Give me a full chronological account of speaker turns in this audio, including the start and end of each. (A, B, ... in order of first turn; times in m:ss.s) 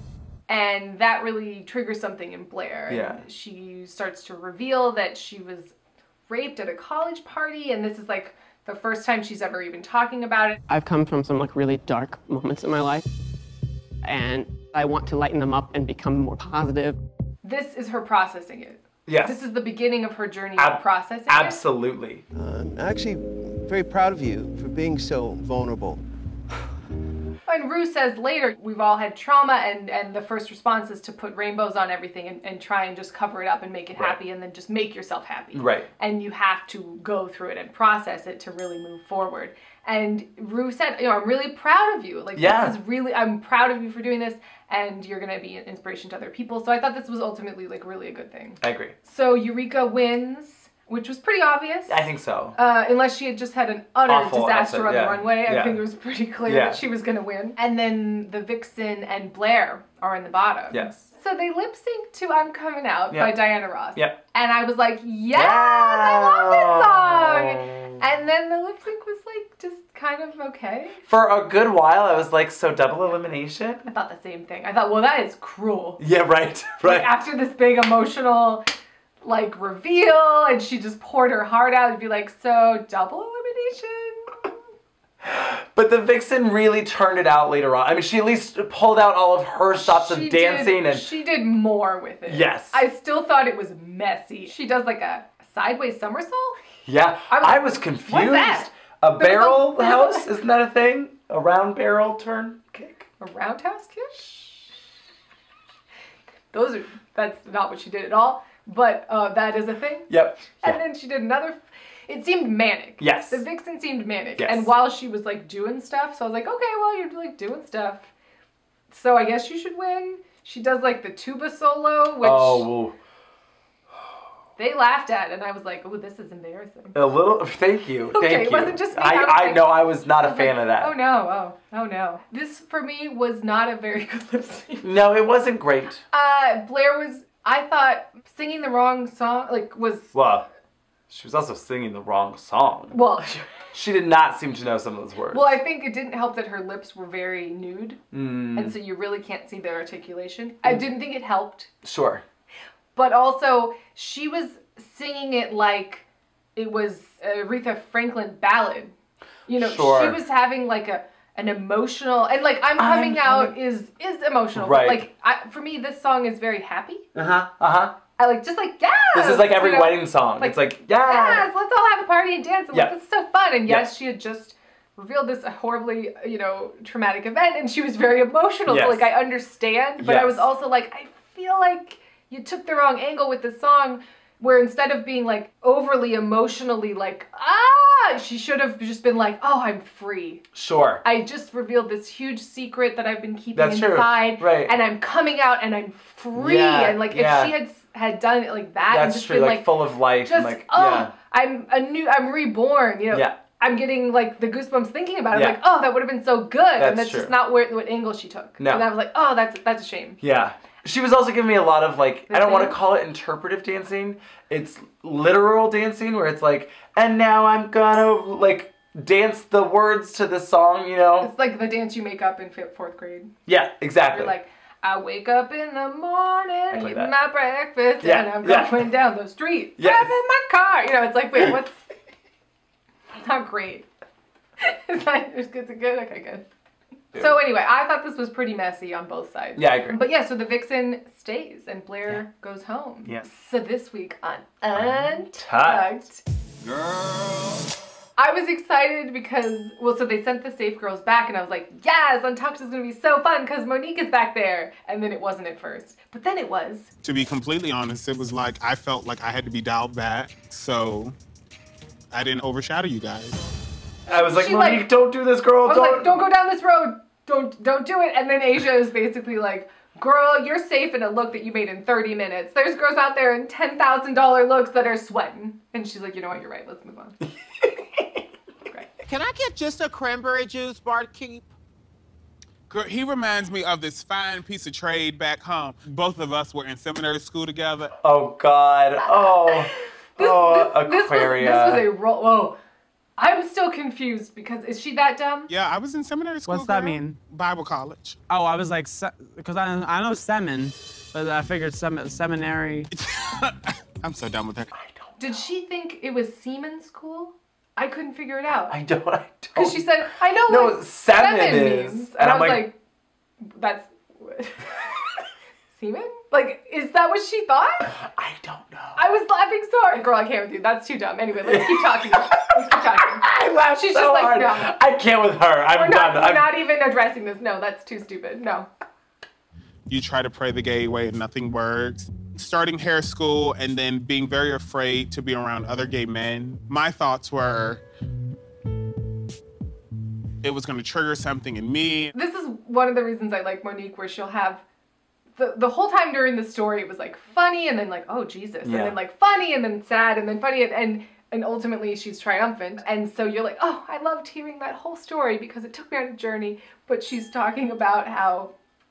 0:00.5-0:05.7 A
0:02.9-0:03.2 B
0:06.3-0:10.6 A
0:10.7-0:13.1 C
0:14.0-0:17.0 C
0:17.4-0:21.6 A
0:19.1-0:19.4 B
0:20.6-0:22.2 B
0:22.3-0:26.0 D
0:27.5-1:11.0 A
0:35.5-0:35.9 B
0:42.4-0:42.8 B
0:48.6-0:49.0 B
0:51.9-0:52.6 B
0:54.1-0:55.8 B
0:56.5-0:56.8 B
1:00.7-1:01.1 B
1:03.1-1:03.4 B
1:05.3-1:08.0 B
1:11.1-1:13.8 B
1:13.8-1:16.0 A
1:16.0-1:17.1 B
1:16.8-1:18.6 A
1:19.2-1:24.5 A
1:25.2-1:31.1 B
1:29.7-1:36.6 A
1:32.3-1:32.8 B
1:36.8-1:43.1 B
1:37.3-1:40.3 A
1:43.2-1:44.2 A
1:46.5-1:58.1 A
1:50.1-1:50.8 B
1:53.0-1:53.4 B
1:54.4-1:54.7 B
1:58.9-2:02.7 A
2:02.2-2:03.0 B
2:04.6-2:07.0 A
2:06.9-2:10.9 B
2:08.1-2:14.9 A
2:14.8-2:16.0 B
2:16.1-2:20.1 A
2:20.1-2:20.5 B
2:21.1-2:23.0 B
2:22.9-2:23.6 A
2:23.7-2:25.6 B
2:25.3-2:28.0 A
2:28.1-2:28.8 B
2:28.6-2:31.7 A
2:31.8-2:32.2 B
2:33.0-2:36.0 A
2:36.6-2:38.9 A
2:39.5-2:47.1 A
2:39.5-2:40.2 B
2:42.8-2:43.5 B
2:44.6-2:45.1 B
2:47.2-2:48.0 B
2:48.2-3:10.4 A
2:49.1-2:51.5 B
2:58.7-2:59.1 B
3:00.0-3:00.5 B
3:10.5-3:11.0 B
3:11.0-3:19.7 A
3:13.5-3:14.7 B
3:16.4-3:17.5 B
3:18.9-3:21.1 B
3:20.2-3:30.2 A
3:25.3-3:25.6 B
3:26.8-3:27.3 B
3:28.6-3:28.9 B
3:30.2-3:41.3 B
3:32.3-3:32.8 A
3:41.2-3:43.3 A
3:43.5-3:44.3 B
3:44.1-3:51.9 A
3:46.7-3:47.1 B
3:48.0-3:48.8 B
3:49.8-3:50.1 B
3:53.1-3:53.9 A
3:54.6-3:56.4 A
3:57.2-4:06.2 A
3:59.6-4:00.0 B
4:04.8-4:05.9 B
4:08.2-4:16.9 A
4:17.0-4:21.2 E
4:22.1-4:23.4 E
4:24.1-4:24.9 A
4:24.1-4:26.2 B
4:25.7-4:37.2 A
4:37.2-4:38.2 B
4:39.0-4:41.5 F
4:42.7-4:48.0 E
4:48.0-4:51.9 B
4:50.2-4:52.6 A
4:53.2-4:55.5 A
4:55.5-4:58.2 E
4:56.5-4:57.2 G
4:58.3-5:02.9 G
5:02.9-5:04.7 E
5:04.7-5:05.4 B
5:05.2-5:08.8 A
5:08.5-5:09.8 B
5:09.6-5:12.8 A
5:10.5-5:12.7 B
5:13.4-5:14.7 A
5:15.7-5:17.9 A
5:17.9-5:19.0 B
5:19.0-5:23.2 A
5:21.4-5:26.5 B
5:23.8-5:24.7 A
5:25.8-5:28.7 A
5:29.9-5:37.8 E
5:40.4-5:42.1 E
5:42.1-5:44.6 A
5:45.4-5:58.5 A
5:48.6-5:49.0 B